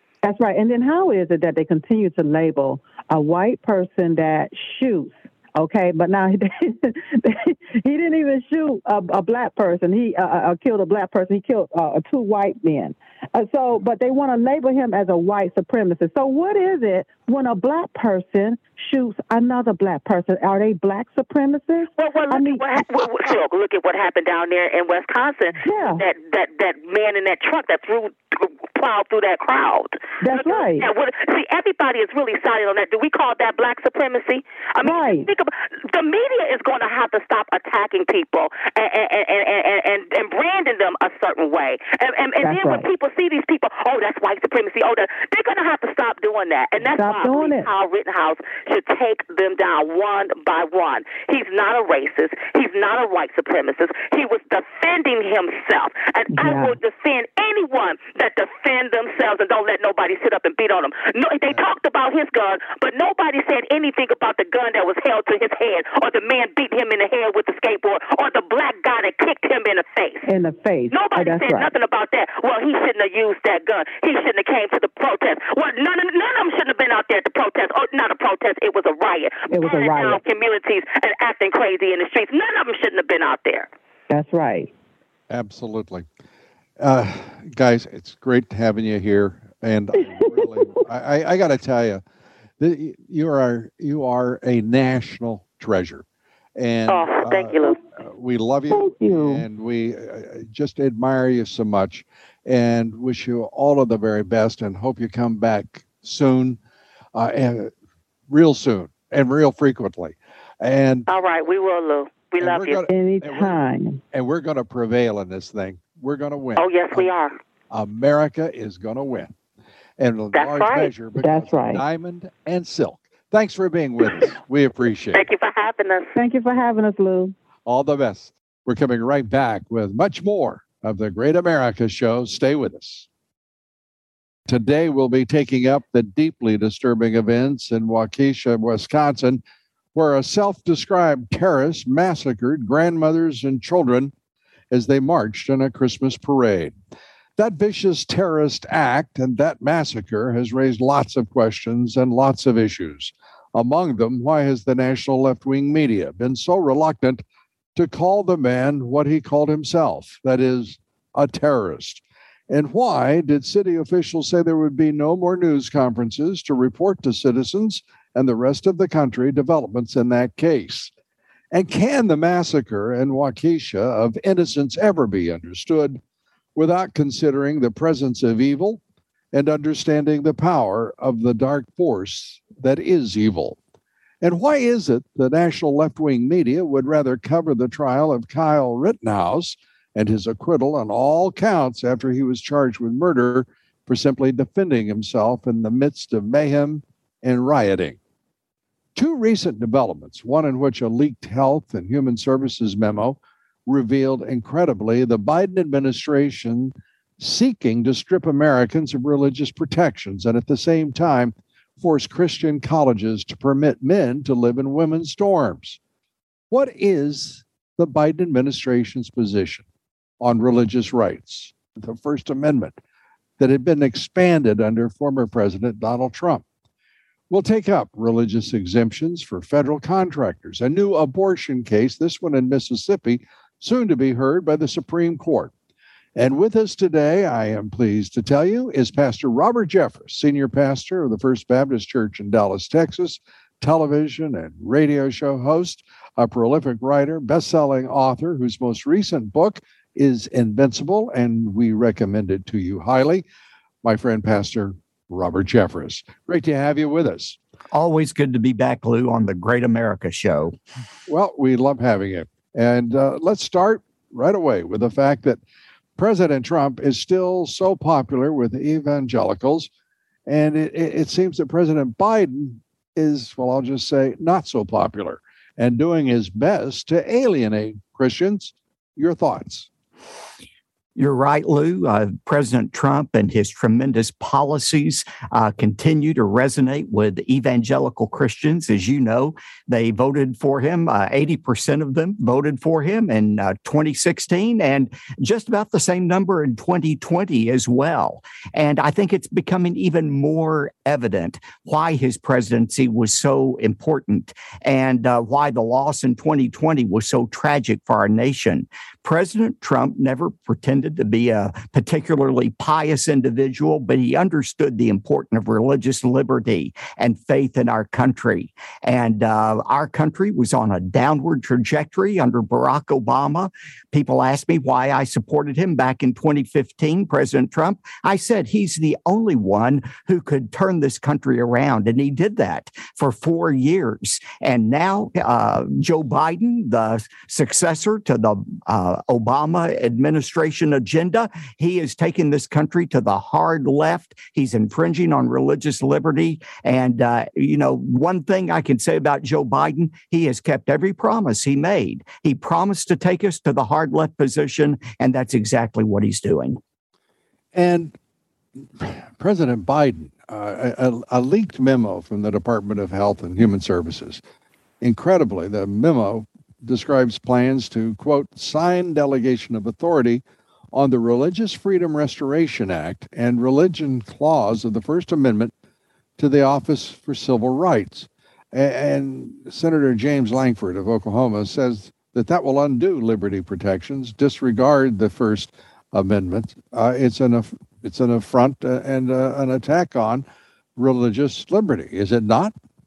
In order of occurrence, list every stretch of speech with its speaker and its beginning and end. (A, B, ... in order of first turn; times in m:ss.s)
0:00.2-0:22.6 A
0:22.0-1:10.3 B
0:25.6-0:26.0 A
0:30.2-0:30.9 A
0:34.8-0:35.3 A
0:42.4-0:42.9 A
0:46.9-0:47.7 A
0:56.3-0:56.8 A
1:10.2-1:11.7 A
1:10.9-1:23.7 B
1:19.5-1:20.2 A
1:24.1-1:24.7 A
1:25.3-1:26.1 C
1:26.8-1:32.0 C
1:30.0-1:30.7 A
1:32.6-1:36.0 C
1:36.6-1:46.6 C
1:36.9-1:37.8 B
1:38.7-1:39.4 A
1:47.1-1:47.7 C
1:48.3-1:51.1 C
1:51.1-1:52.8 B
1:52.4-1:53.6 C
1:52.9-1:54.0 A
1:54.1-1:57.1 C
1:56.6-1:57.4 B
1:57.7-1:59.3 C
2:00.0-2:05.2 C
2:00.3-2:00.9 B
2:01.2-2:01.8 A
2:05.1-2:06.1 B
2:06.2-2:07.3 A
2:07.6-2:13.1 C
2:14.5-2:19.4 C
2:19.9-2:24.1 C
2:24.7-2:26.7 C
2:27.4-2:37.2 C
2:37.8-2:50.9 C
2:51.5-2:56.0 C
2:56.5-2:58.8 C
2:59.3-3:03.6 C
3:04.2-3:18.0 C
3:19.0-3:35.8 C
3:36.5-3:39.6 C
3:40.2-3:42.8 C
3:43.4-3:46.4 C
3:47.3-3:55.5 C
3:56.2-4:13.2 C
4:13.8-4:17.4 C
4:17.7-4:20.6 D
4:21.1-4:25.4 C
4:26.0-4:29.7 C
4:30.3-4:39.7 C
4:41.0-5:56.6 D
5:57.5-5:57.9 C
5:58.6-6:04.2 C
6:04.8-6:10.2 C
6:10.7-6:15.5 C
6:16.2-6:30.2 C
6:30.8-6:32.5 C